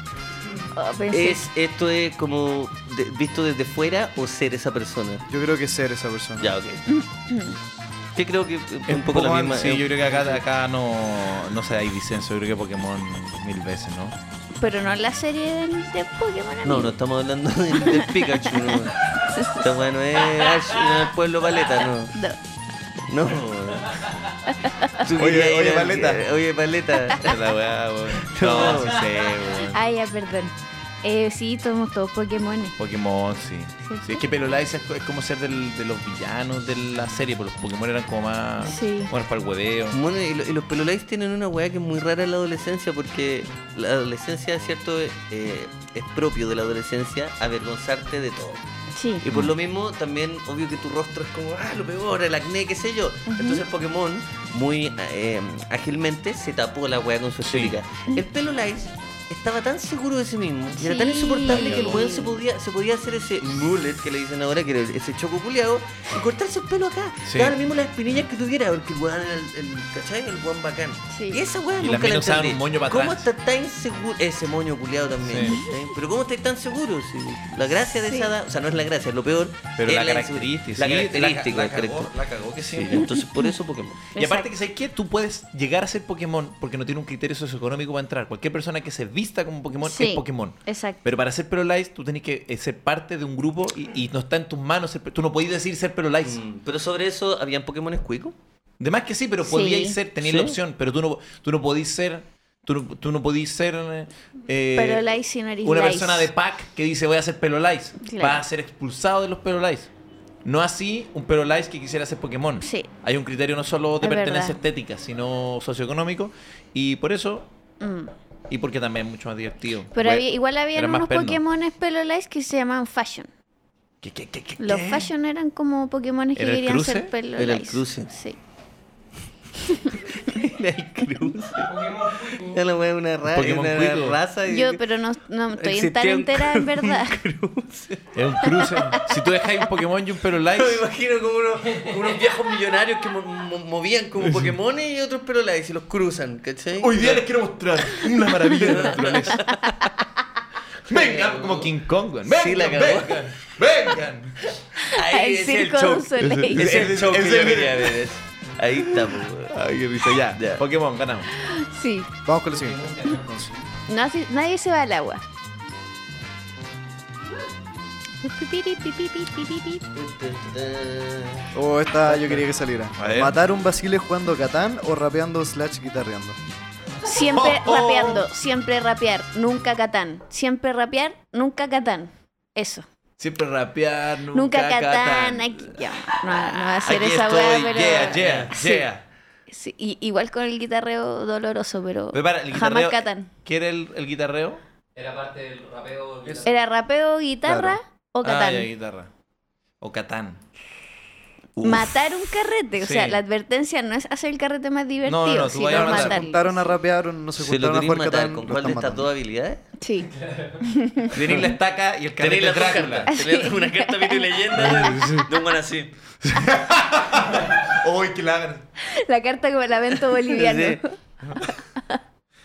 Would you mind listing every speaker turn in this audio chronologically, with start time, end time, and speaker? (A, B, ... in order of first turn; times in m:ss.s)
0:00.7-0:01.4 A
0:01.1-0:05.2 B
0:05.3-0:06.5 C
0:06.4-0:06.8 B
0:06.9-0:07.6 A
0:08.1-0:10.2 B
0:08.9-0:14.2 D
0:14.6-0:17.0 A
0:16.6-0:22.1 B
0:17.8-0:18.6 A
0:19.1-0:19.8 A
0:23.1-0:24.1 B
0:24.5-0:24.9 A
0:25.0-0:27.4 B
0:25.1-0:26.2 D
0:27.2-0:29.8 D
0:28.2-0:29.5 B
0:29.6-0:32.8 A
0:32.8-0:40.0 D
0:33.8-0:34.2 A
0:38.6-0:39.1 A
0:39.9-0:48.6 B
0:48.9-0:49.2 A
0:49.2-1:24.0 B
0:49.3-0:49.5 D
0:53.3-0:53.6 A
0:57.4-0:57.8 D
1:00.8-1:02.4 A
1:07.2-1:07.6 D
1:11.1-1:11.4 A
1:11.8-1:13.3 D
1:15.2-1:15.6 D
1:15.4-1:15.7 A
1:18.0-1:18.3 A
1:19.8-1:23.1 D
1:24.1-1:24.5 A
1:24.1-1:36.4 D
1:29.8-1:31.0 A
1:36.2-1:38.4 B
1:38.8-1:45.0 D
1:39.4-1:40.0 A
1:40.2-1:40.6 B
1:44.7-1:46.3 A
1:45.6-1:49.9 D
1:48.0-1:48.4 A
1:50.4-1:57.5 D
1:52.6-1:52.9 A
1:54.0-1:54.6 A
1:57.8-1:58.1 A
1:58.5-2:01.4 D
1:59.9-2:03.3 A
2:04.0-2:05.1 D
2:04.6-2:08.4 A
2:06.4-2:07.1 D
2:07.4-2:08.1 B
2:10.0-2:14.8 B
2:11.6-2:12.6 E
2:13.3-2:14.2 D
2:14.5-2:17.2 A
2:15.5-2:18.9 B
2:18.1-2:20.8 D
2:20.5-2:27.3 B
2:21.7-2:22.2 E
2:24.2-2:24.5 D
2:26.8-2:29.6 D
2:27.9-2:29.7 B
2:30.8-2:31.7 B
2:30.9-2:34.5 D
2:32.2-2:33.5 B
2:34.7-2:39.5 B
2:34.8-2:36.8 A
2:36.2-2:38.0 D
2:39.0-2:41.3 D
2:40.3-2:40.6 B
2:41.4-2:42.1 A
2:42.2-2:43.5 C
2:42.6-2:43.2 E
2:43.9-2:45.2 A
2:48.2-2:49.8 A
2:49.9-2:51.5 B
2:51.5-2:56.4 C
2:52.0-2:52.4 B
2:53.0-2:53.4 D
2:57.0-3:02.8 A
2:57.2-2:58.3 D
3:03.2-3:09.0 D
3:04.3-3:08.9 A
3:08.0-3:08.5 B
3:09.5-3:13.3 A
3:12.1-3:14.6 D
3:14.9-3:16.5 E
3:16.4-3:18.7 A
3:18.2-3:19.1 D
3:19.8-3:20.4 D
3:21.6-3:21.8 D
3:21.6-3:26.7 A
3:22.8-3:23.2 D
3:25.0-3:26.2 D
3:25.7-3:29.1 C
3:27.4-3:29.6 B
3:29.8-3:30.1 A
3:30.0-3:30.6 E
3:30.6-3:31.4 A
3:31.1-3:33.1 D
3:32.2-3:35.9 B
3:33.1-3:34.3 A
3:34.6-3:35.2 D
3:34.9-3:35.2 C
3:36.2-3:38.6 D
3:38.8-3:40.9 A
3:40.2-3:40.8 B
3:41.2-3:41.5 D